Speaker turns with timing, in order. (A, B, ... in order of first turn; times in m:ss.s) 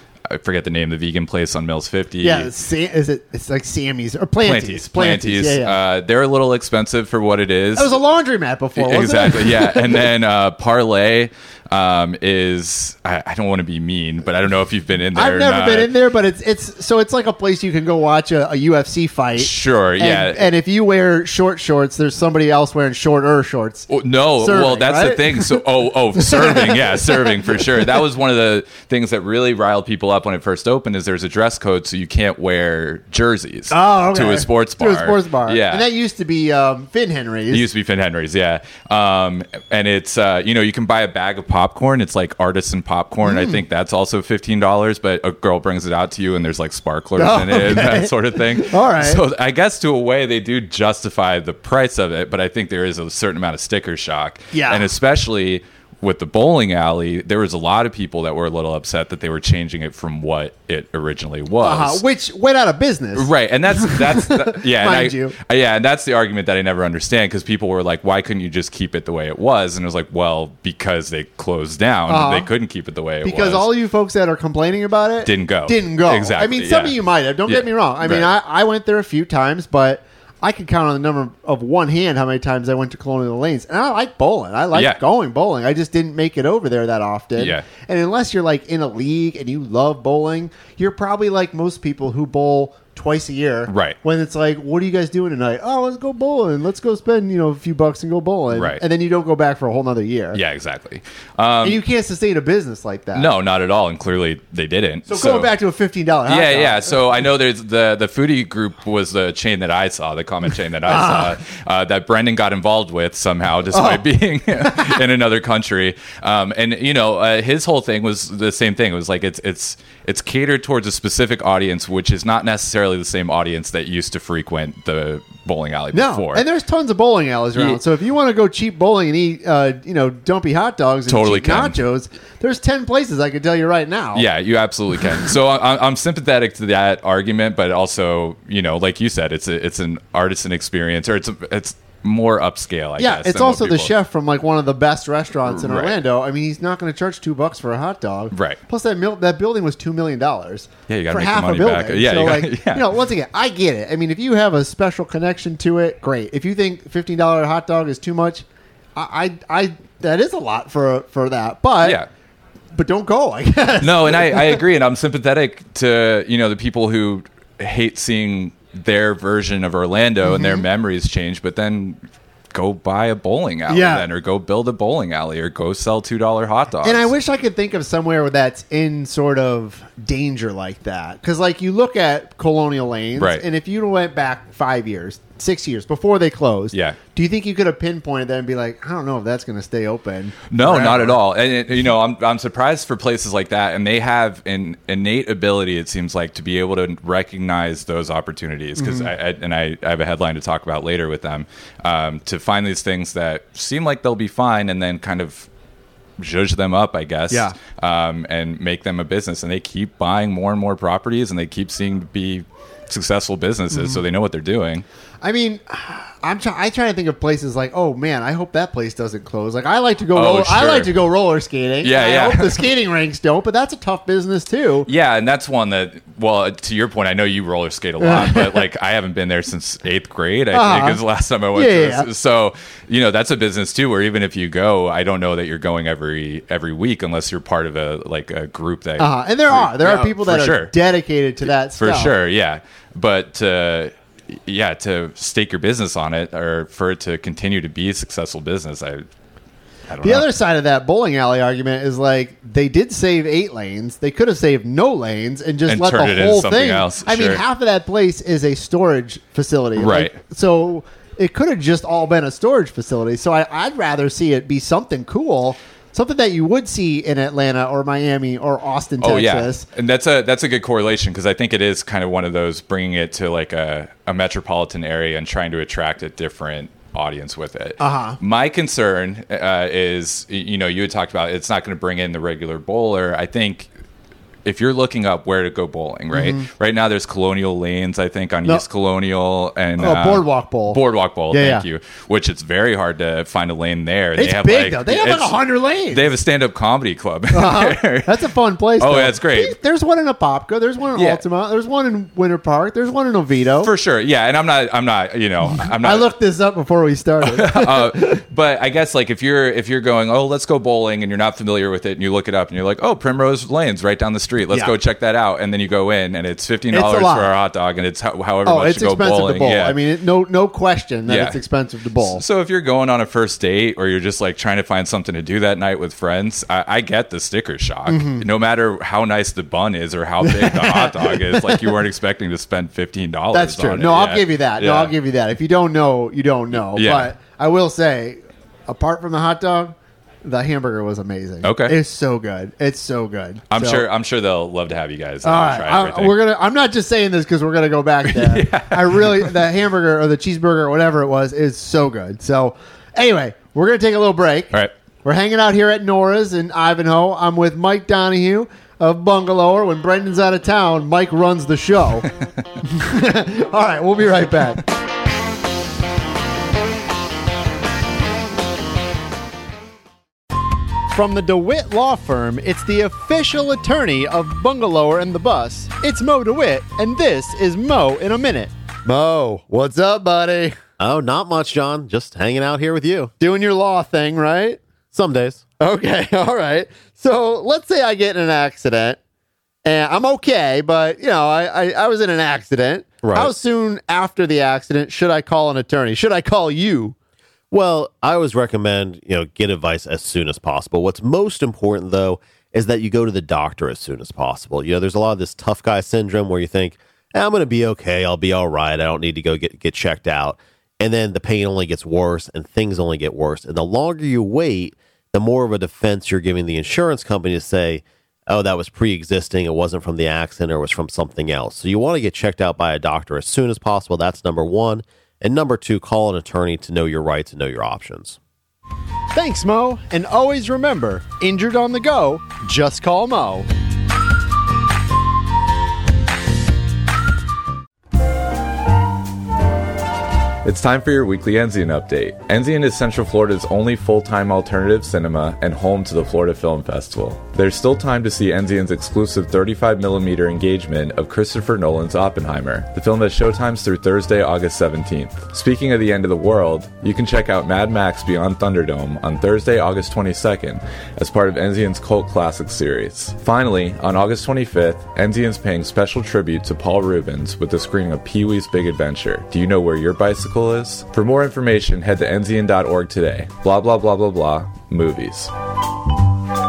0:00.3-0:02.5 A
0:02.2-0:05.8 B
0:04.4-0:08.0 A
0:07.8-0:10.1 B
0:08.8-0:15.9 A
0:15.1-0:25.6 B
0:19.4-0:20.5 A
0:23.9-0:35.8 A
0:26.2-0:27.9 B
0:33.7-0:37.6 B
0:37.5-1:02.0 A
0:43.2-0:43.6 B
0:47.2-0:49.2 B
0:54.5-0:54.9 B
1:01.6-1:05.4 B
1:03.2-1:13.7 A
1:12.1-1:12.5 B
1:13.2-1:40.4 B
1:15.2-1:17.0 A
1:17.5-1:18.3 A
1:24.7-1:25.0 A
1:27.4-1:27.6 A
1:33.7-1:34.0 A
1:38.5-1:38.8 A
1:40.3-1:41.8 A
1:41.6-1:43.3 B
1:43.1-1:45.5 A
1:45.1-1:46.9 B
1:46.3-2:06.4 A
1:50.9-1:51.3 B
1:53.7-1:54.0 B
1:54.6-1:55.0 B
2:05.9-2:14.2 B
2:07.5-2:07.8 A
2:11.1-2:11.8 A
2:14.1-2:23.9 A
2:23.0-2:38.4 B
2:25.5-2:26.0 A
2:28.3-2:28.6 A
2:30.9-2:32.9 A
2:39.0-2:42.0 B
2:41.8-2:42.1 A
2:42.8-2:44.6 B
2:43.8-2:52.0 A
2:50.2-2:50.6 B
2:52.5-2:57.1 A
2:53.7-2:54.1 B
2:56.8-3:11.2 B
3:03.2-3:03.4 A
3:10.5-3:25.5 A
3:18.8-3:19.1 B
3:26.2-3:34.8 A
3:27.3-3:27.5 B
3:33.7-3:34.0 B
3:35.2-3:44.9 B
3:40.2-3:40.9 A
3:41.8-3:42.7 A
3:44.9-4:00.7 A
3:48.0-3:48.6 B
3:50.5-3:51.0 B
3:51.5-3:52.1 B
3:59.0-4:02.1 B
4:01.8-4:09.0 A
4:09.9-4:10.3 A
4:10.0-4:29.6 B
4:15.7-4:17.4 A
4:19.8-4:20.2 A
4:29.0-4:43.7 A
4:37.8-4:38.2 B
4:44.4-4:55.4 A
4:46.1-4:46.5 B
4:49.8-4:50.8 B
4:51.3-4:51.6 B
4:54.2-4:56.1 B
4:55.9-4:58.2 A
4:57.3-5:03.7 B
4:58.8-4:59.6 A
5:01.0-5:01.2 A
5:03.6-5:06.1 A
5:05.6-5:08.2 B
5:07.2-5:19.8 A
5:16.7-5:17.3 B
5:18.4-5:22.2 B
5:21.1-5:21.4 A
5:22.0-5:34.9 A
5:27.9-5:28.2 B
5:30.2-5:31.8 B
5:33.3-5:43.8 B
5:36.7-5:37.1 A
5:41.4-5:41.8 A
5:43.5-5:46.2 A
5:45.2-6:02.1 B
5:48.1-5:49.3 A
6:02.6-6:04.6 B
6:10.9-6:20.6 B
6:20.8-6:23.1 C
6:23.2-6:24.6 B
6:24.9-6:25.4 C
6:25.6-6:29.0 B
6:29.6-6:37.0 B
6:33.0-6:33.3 C
6:37.5-7:08.2 C
7:09.1-7:13.5 B
7:20.4-7:55.3 A